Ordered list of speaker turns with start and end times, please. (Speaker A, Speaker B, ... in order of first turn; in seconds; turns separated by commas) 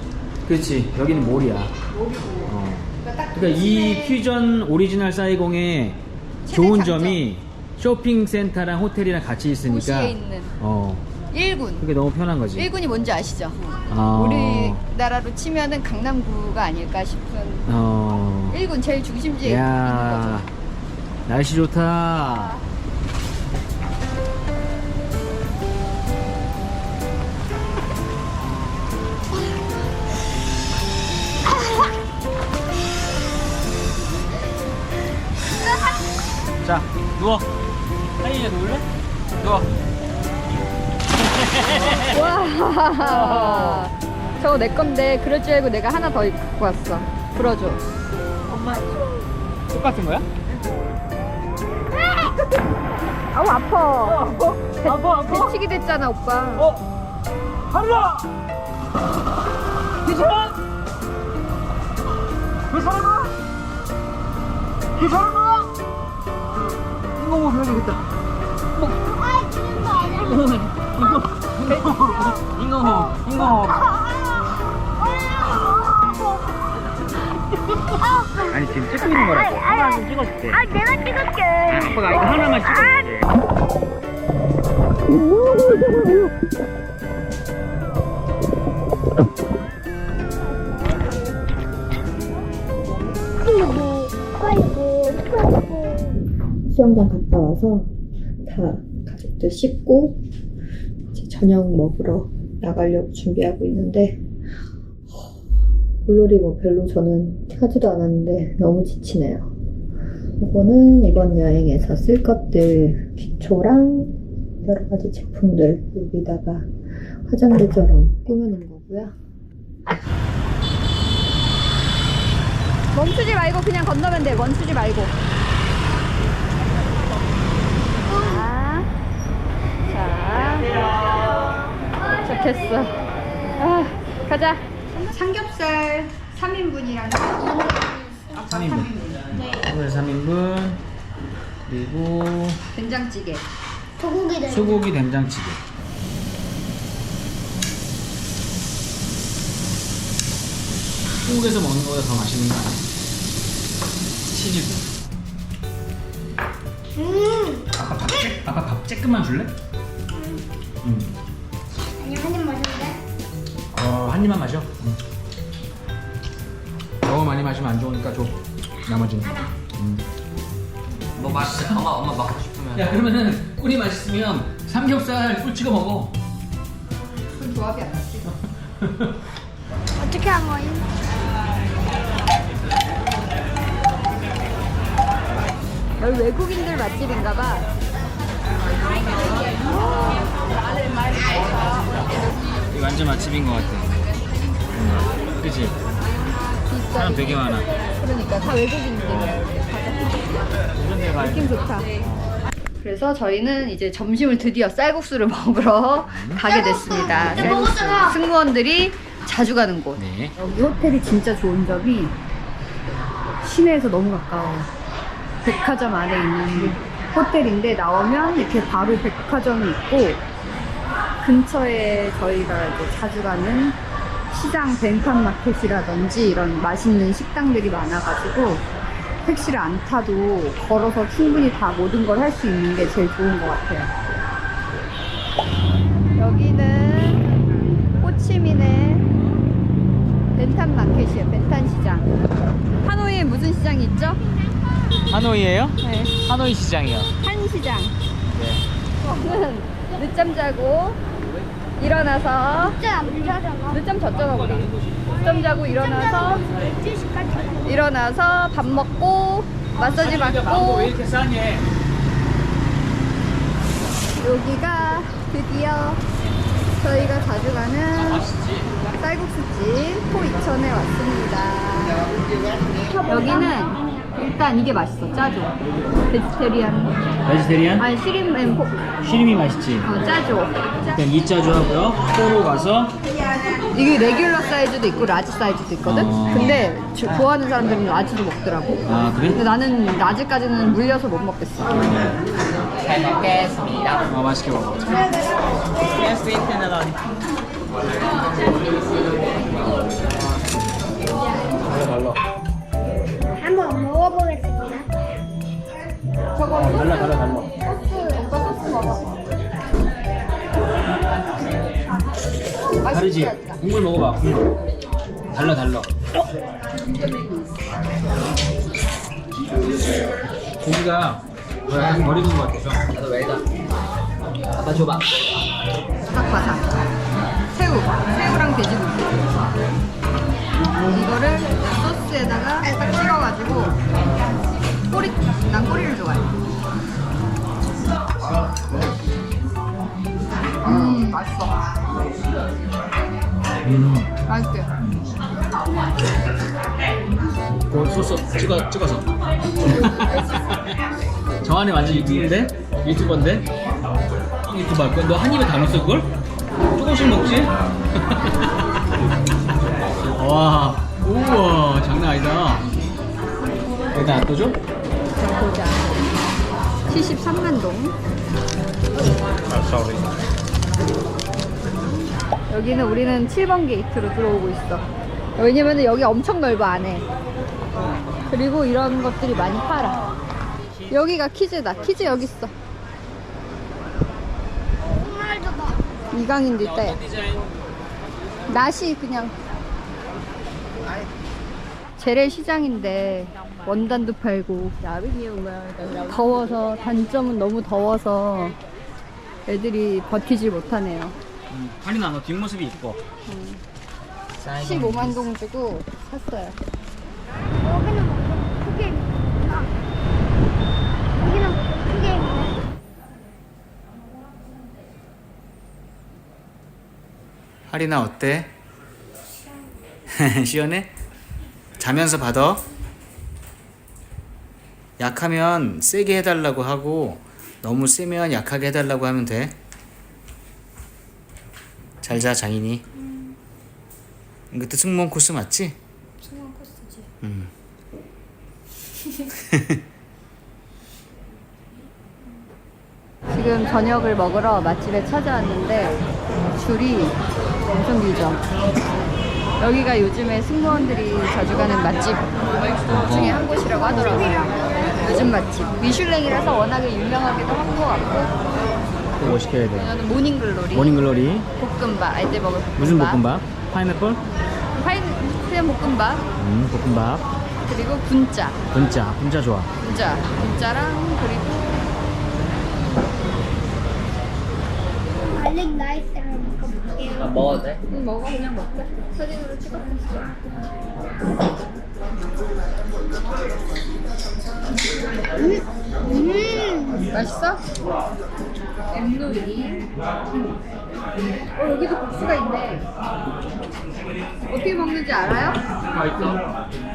Speaker A: 0.5-1.7, Speaker B: 1.9-4.2, Speaker A: 2.5-11.1, Speaker B: 6.5-7.2, Speaker B: 9.7-10.6, Speaker B: 11.3-11.9, Speaker A: 11.8-12.7, Speaker B: 12.6-17.7, Speaker A: 13.9-14.8, Speaker A: 17.7-18.6, Speaker B: 18.5-20.5, Speaker A: 19.4-20.5, Speaker A: 21.3-22.6, Speaker A: 36.6-37.5, Speaker A: 38.2-38.9, Speaker A: 39.4-39.7, Speaker A: 41.5-42.2, Speaker B: 42.1-47.8, Speaker A: 43.0-43.9, Speaker A: 48.5-48.8, Speaker A: 49.7-50.3, Speaker B: 53.3-54.2, Speaker A: 54.1-55.5, Speaker B: 54.8-56.7, Speaker A: 57.7-58.2, Speaker A: 60.0-60.5, Speaker A: 62.7-63.3, Speaker A: 65.0-65.6, Speaker A: 67.2-68.0, Speaker C: 69.0-70.4, Speaker A: 70.2-73.9, Speaker B: 71.7-72.4, Speaker C: 72.8-73.2, Speaker C: 77.9-83.1, Speaker A: 78.5-80.7, Speaker A: 81.7-83.3, Speaker C: 93.4-96.2, Speaker B: 96.7-97.9, Speaker B: 98.4-100.2, Speaker B: 101.1-104.2, Speaker B: 106.0-109.5, Speaker B: 110.4-119.2, Speaker B: 122.9-125.1, Speaker B: 128.1-128.9, Speaker B: 129.9-130.9, Speaker B: 132.2-139.3, Speaker A: 138.5-140.8, Speaker A: 141.7-142.6, Speaker B: 142.7-143.5, Speaker C: 144.0-144.9, Speaker A: 144.5-145.6, Speaker A: 151.2-152.8, Speaker A: 154.3-154.8, Speaker C: 157.0-157.6, Speaker A: 157.8-159.5, Speaker C: 160.2-160.4, Speaker A: 160.8-161.1, Speaker C: 162.0-163.0, Speaker A: 163.7-165.0, Speaker A: 167.1-170.0, Speaker A: 171.2-172.0, Speaker D: 171.2-173.0, Speaker A: 172.7-176.1, Speaker B: 177.2-178.3, Speaker C: 180.0-180.9, Speaker B: 186.0-187.7, Speaker A: 192.7-194.0, Speaker A: 194.8-195.8, Speaker B: 196.7-200.3, Speaker A: 196.9-197.7, Speaker A: 199.1-199.4, Speaker A: 200.8-202.3, Speaker B: 201.2-201.9, Speaker B: 202.8-212.2, Speaker A: 206.1-206.4, Speaker A: 207.1-207.9, Speaker C: 207.5-208.1, Speaker A: 210.0-210.3, Speaker B: 213.4-214.7, Speaker B: 215.4-220.2, Speaker B: 221.2-223.8, Speaker B: 224.3-228.7, Speaker B: 229.2-234.1, Speaker B: 236.2-237.3, Speaker B: 238.0-239.1, Speaker B: 240.3-242.1, Speaker B: 242.8-244.2, Speaker A: 245.1-247.1, Speaker B: 245.8-246.1, Speaker B: 247.2-248.0, Speaker A: 248.3-248.6, Speaker B: 249.0-251.0, Speaker B: 251.8-252.8, Speaker C: 252.6-253.8, Speaker B: 253.7-256.5, Speaker A: 254.1-255.2, Speaker C: 255.6-257.8, Speaker A: 256.5-256.8, Speaker B: 257.6-260.9, Speaker A: 259.8-261.7, Speaker B: 264.2-266.0, Speaker B: 266.8-268.3, Speaker A: 268.0-268.7, Speaker B: 268.9-272.1, Speaker C: 272.8-274.1, Speaker B: 273.1-275.6, Speaker B: 276.1-276.9, Speaker A: 277.3-277.9, Speaker B: 277.8-278.9, Speaker A: 279.0-279.9, Speaker B: 279.8-280.6, Speaker A: 280.9-282.9, Speaker B: 283.7-288.8, Speaker A: 285.8-287.2, Speaker A: 288.9-289.4, Speaker B: 289.3-291.8, Speaker A: 291.8-292.1, Speaker D: 292.8-294.0, Speaker A: 294.0-295.1, Speaker A: 296.0-296.9, Speaker A: 301.7-302.2, Speaker C: 303.4-304.9, Speaker B: 306.4-309.1, Speaker A: 306.5-307.5, Speaker B: 312.8-313.6, Speaker A: 312.9-314.4, Speaker A: 315.3-315.9, Speaker A: 320.6-322.9, Speaker D: 323.0-323.4, Speaker B: 326.1-326.8, Speaker B: 327.5-329.2, Speaker B: 330.9-333.8, Speaker B: 334.9-336.3, Speaker B: 340.6-341.6, Speaker A: 343.7-344.1, Speaker B: 344.3-344.7, Speaker A: 347.7-349.1, Speaker A: 349.7-350.2, Speaker B: 350.0-350.6, Speaker A: 351.4-353.5, Speaker A: 354.5-356.1, Speaker A: 356.8-358.5, Speaker A: 360.2-362.6, Speaker A: 363.9-364.6, Speaker B: 365.2-365.9, Speaker B: 366.9-368.0, Speaker B: 372.5-374.9, Speaker B: 375.4-377.1, Speaker B: 378.3-380.1, Speaker B: 380.9-382.5, Speaker C: 384.9-385.9, Speaker B: 386.1-387.0, Speaker A: 386.6-387.4, Speaker B: 388.5-389.4, Speaker B: 392.0-398.6, Speaker B: 399.5-401.2, Speaker A: 401.5-403.0, Speaker B: 403.3-403.6, Speaker A: 404.4-405.2, Speaker B: 404.6-406.6, Speaker C: 407.6-409.7, Speaker C: 411.2-412.6, Speaker A: 417.7-418.5, Speaker A: 420.1-420.9, Speaker A: 421.8-422.6, Speaker A: 425.0-429.6, Speaker A: 432.0-432.8, Speaker C: 433.1-433.3, Speaker A: 434.5-435.8, Speaker C: 436.2-437.0, Speaker A: 437.2-437.5, Speaker B: 443.3-446.0, Speaker B: 446.6-448.4, Speaker B: 449.6-458.3, Speaker A: 452.9-453.4, Speaker C: 453.9-455.0, Speaker A: 459.2-459.9, Speaker B: 459.6-463.2, Speaker A: 460.7-461.5, Speaker A: 462.8-464.2, Speaker B: 464.8-466.2, Speaker A: 466.4-467.2, Speaker B: 467.7-468.6, Speaker A: 468.7-469.7, Speaker B: 469.8-471.9, Speaker C: 475.4-477.7, Speaker D: 477.2-477.8, Speaker B: 477.9-480.3, Speaker C: 485.4-487.1, Speaker B: 487.1-487.6, Speaker B: 488.9-489.9, Speaker B: 491.6-492.9, Speaker B: 494.5-495.6, Speaker D: 495.9-496.4